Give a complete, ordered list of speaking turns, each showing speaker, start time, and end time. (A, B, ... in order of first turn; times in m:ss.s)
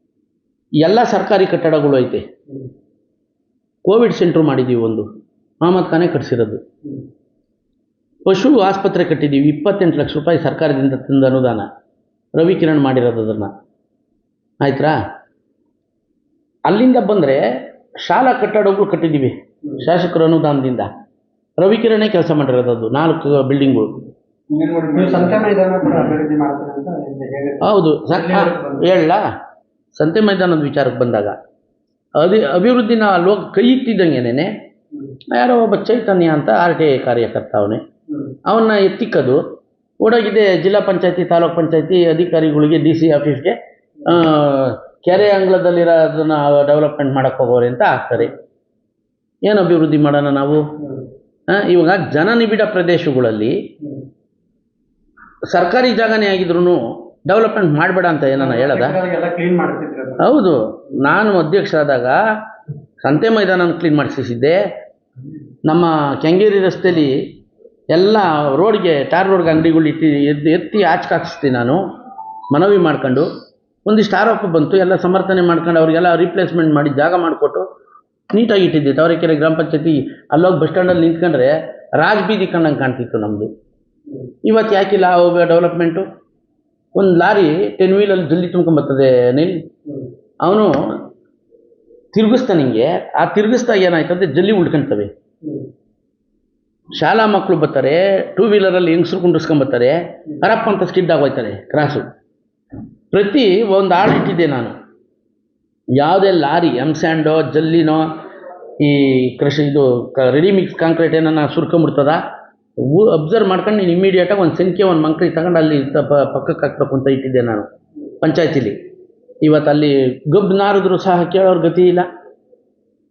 0:00.8-0:02.2 A
0:03.9-0:05.0 A
0:05.6-0:06.6 A
0:08.2-0:11.7 A
0:12.4-0:13.5 A
0:14.6-0:15.0 A
0:16.7-0:17.4 A
0:18.0-0:20.9 A
0:21.6-0:24.0 A
0:24.5-0:29.0 B
0:27.6-0:29.2 A
0:29.9-0:31.4 A
0:32.2-0:34.5 A
0:35.3-0:37.8 A
0:38.1-0:38.4 B
0:38.4-0:39.4 A
0:40.0-0:48.3 A
0:49.5-0:50.6 A
0:50.8-0:51.1 B
0:51.5-0:53.6 A
0:55.5-0:59.0 A
0:58.4-1:00.2 B
1:00.2-1:02.2 A
1:03.0-1:04.6 A
1:05.7-1:07.2 A
1:07.9-1:11.8 A
1:12.5-1:13.3 A
1:13.8-1:17.6 A
1:18.3-1:23.5 A
1:24.4-1:26.0 A
1:27.0-1:29.6 A
1:29.8-1:30.1 B
1:30.4-1:30.7 A
1:32.1-1:35.1 A
1:35.4-1:35.7 B
1:36.9-1:42.1 A
1:43.1-1:44.7 A
1:46.0-1:48.1 A
1:48.8-1:52.2 A
1:52.8-1:57.7 A
1:58.2-1:58.8 A
1:59.4-2:02.1 A